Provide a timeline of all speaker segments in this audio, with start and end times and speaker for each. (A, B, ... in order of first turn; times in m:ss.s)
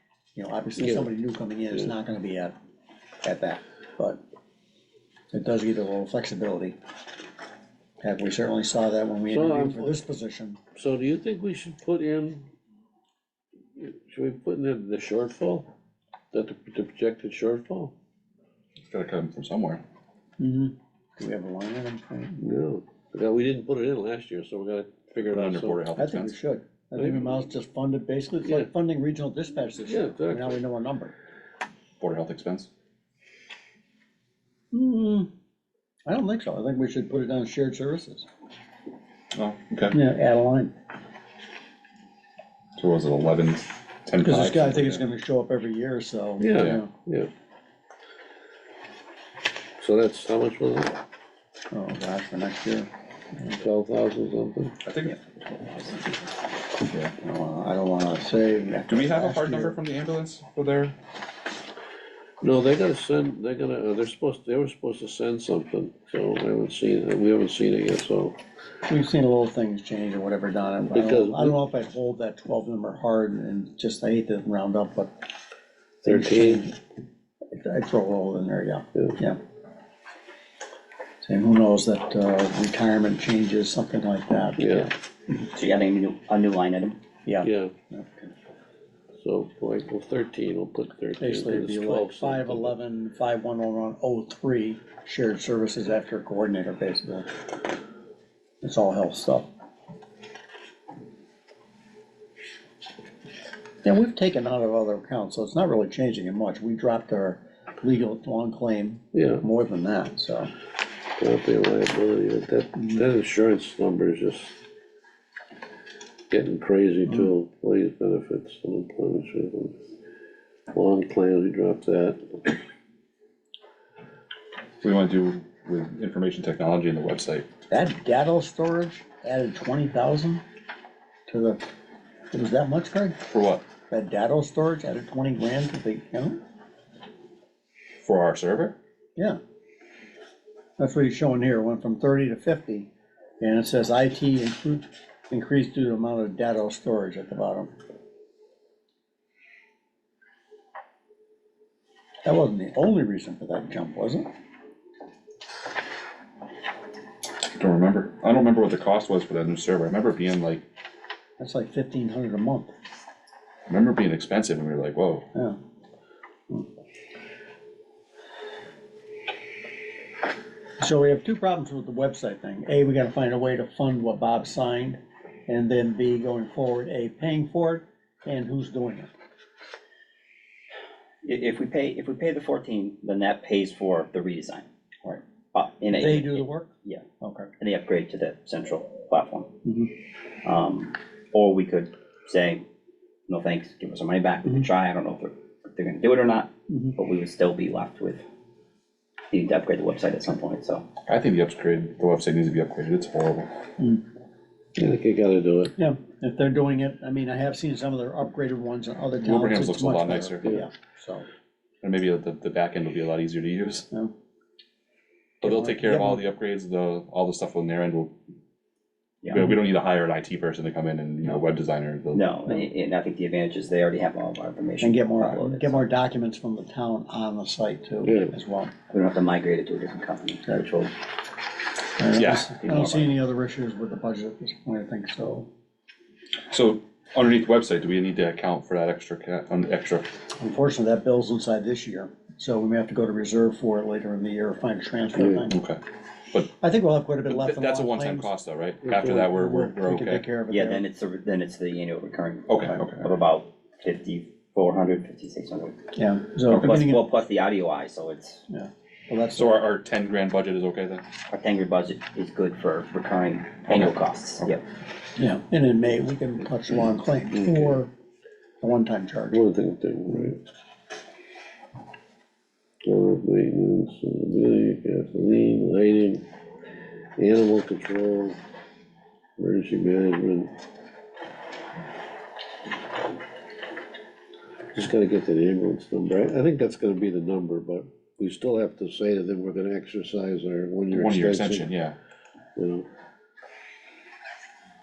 0:00.4-0:02.6 A
0:00.8-0:01.1 B
0:03.2-0:04.2 A
0:05.3-0:06.8 A
0:08.0-0:10.6 A
0:09.3-0:10.0 B
0:10.8-0:12.5 B
0:13.8-0:15.7 B
0:16.3-0:17.9 B
0:18.8-0:19.8 C
0:20.4-0:22.4 A
0:22.4-0:25.8 B
0:25.1-0:26.4 C
0:26.0-0:31.2 A
0:27.0-0:27.4 B
0:28.4-0:28.7 B
0:29.7-0:30.6 B
0:32.0-0:32.7 C
0:34.7-0:35.3 A
0:36.1-0:38.3 A
0:39.4-0:40.0 C
0:39.9-0:40.7 A
0:42.8-0:45.0 C
0:44.2-0:46.9 A
0:46.4-0:47.3 B
0:46.5-0:46.8 C
0:49.8-0:51.0 B
0:51.7-0:52.9 A
0:53.5-0:54.8 B
0:54.8-0:55.2 C
0:56.8-0:57.1 C
0:57.2-0:59.8 A
0:58.9-1:01.0 C
1:02.4-1:08.4 B
1:08.9-1:15.2 A
1:10.9-1:11.6 B
1:16.0-1:16.6 B
1:16.1-1:16.8 A
1:17.5-1:19.4 A
1:21.2-1:24.9 A
1:24.6-1:24.9 B
1:25.5-1:27.0 D
1:27.2-1:28.3 A
1:27.4-1:27.7 B
1:29.2-1:32.8 B
1:31.2-1:37.3 A
1:38.6-1:39.5 A
1:43.8-1:50.5 A
1:49.1-1:49.4 B
1:51.2-1:54.5 B
1:56.3-1:59.8 B
2:00.7-2:02.5 B
2:04.8-2:07.5 C
2:07.7-2:10.4 A
2:11.3-2:11.6 A
2:12.3-2:13.2 A
2:13.3-2:13.6 C
2:13.9-2:16.4 A
2:18.0-2:18.8 C
2:20.8-2:27.7 A
2:32.2-2:34.3 A
2:37.6-2:40.6 C
2:41.4-2:42.7 A
2:43.7-2:45.3 C
2:50.8-2:59.1 A
3:01.2-3:04.7 D
3:05.5-3:07.0 D
3:05.9-3:06.7 A
3:07.2-3:07.5 A
3:07.6-3:09.5 D
3:09.6-3:09.9 A
3:10.4-3:12.7 D
3:13.3-3:18.2 D
3:16.7-3:17.0 A
3:19.3-3:20.9 D
3:21.1-3:23.6 C
3:24.8-3:25.7 B
3:25.8-3:31.3 A
3:29.2-3:30.5 C
3:31.8-3:33.9 C
3:35.4-3:38.1 C
3:35.4-3:36.2 A
3:39.2-3:39.5 D
3:39.3-3:42.2 C
3:42.1-3:45.8 D
3:44.8-3:48.7 A
3:48.0-3:48.4 B
3:48.9-3:50.9 D
3:52.0-3:55.5 A
3:52.2-3:52.5 C
3:52.6-3:53.1 D
3:56.5-4:00.1 C
4:00.4-4:05.6 A
4:05.2-4:05.4 B
4:05.5-4:05.8 C
4:06.6-4:08.3 A
4:07.3-4:10.3 C
4:08.8-4:09.2 B
4:09.2-4:10.8 A
4:10.5-4:15.8 D
4:12.5-4:13.1 C
4:16.0-4:17.0 A
4:16.5-4:16.7 C
4:16.5-4:18.4 D
4:18.5-4:19.6 A
4:19.4-4:21.0 C
4:21.3-4:24.6 D
4:23.7-4:24.5 C
4:25.2-4:27.9 A
4:27.4-4:27.8 B
4:28.6-4:29.4 A
4:29.3-4:30.4 B
4:32.8-4:36.2 B
4:37.2-4:38.4 B
4:39.4-4:40.5 B
4:44.7-4:51.7 B
4:50.9-4:52.0 C
4:52.6-4:52.9 B